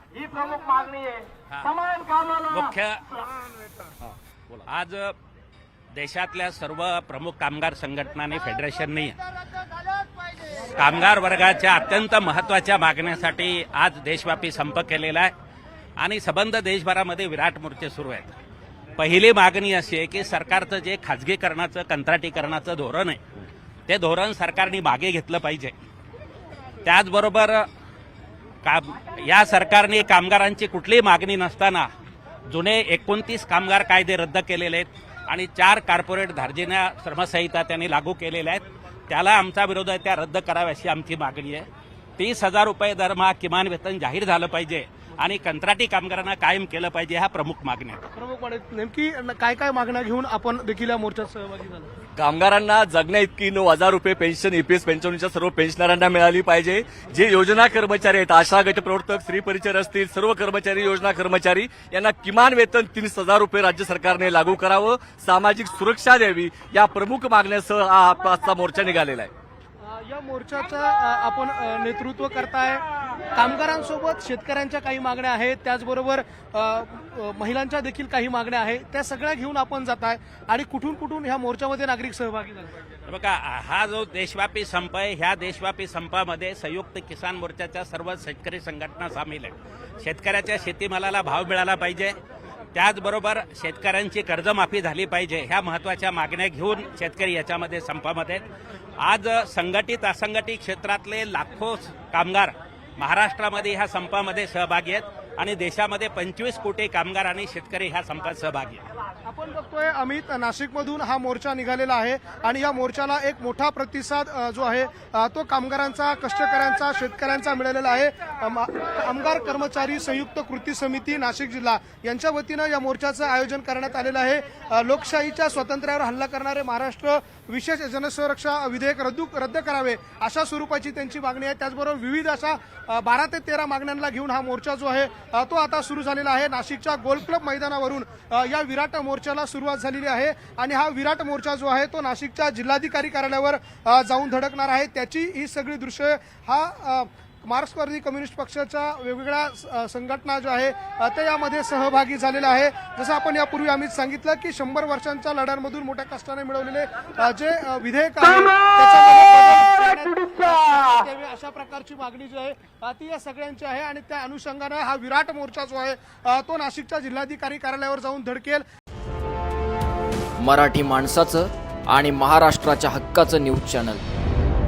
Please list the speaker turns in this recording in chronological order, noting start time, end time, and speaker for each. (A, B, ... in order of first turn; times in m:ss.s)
0:00.2-0:02.4 A
0:02.5-0:03.0 B
0:04.6-0:05.1 B
0:05.9-0:09.2 B
0:10.4-0:15.3 B
0:16.0-0:18.3 B
0:19.0-0:25.7 B
0:26.8-0:27.7 B
0:28.6-0:31.9 B
0:32.5-0:48.0 B
0:48.1-0:51.9 C
0:52.2-1:09.3 D
1:09.8-1:22.7 C
1:23.1-1:32.2 B
1:32.7-1:38.4 B
1:39.0-1:48.9 B
1:49.2-2:48.6 C
2:50.4-2:54.0 E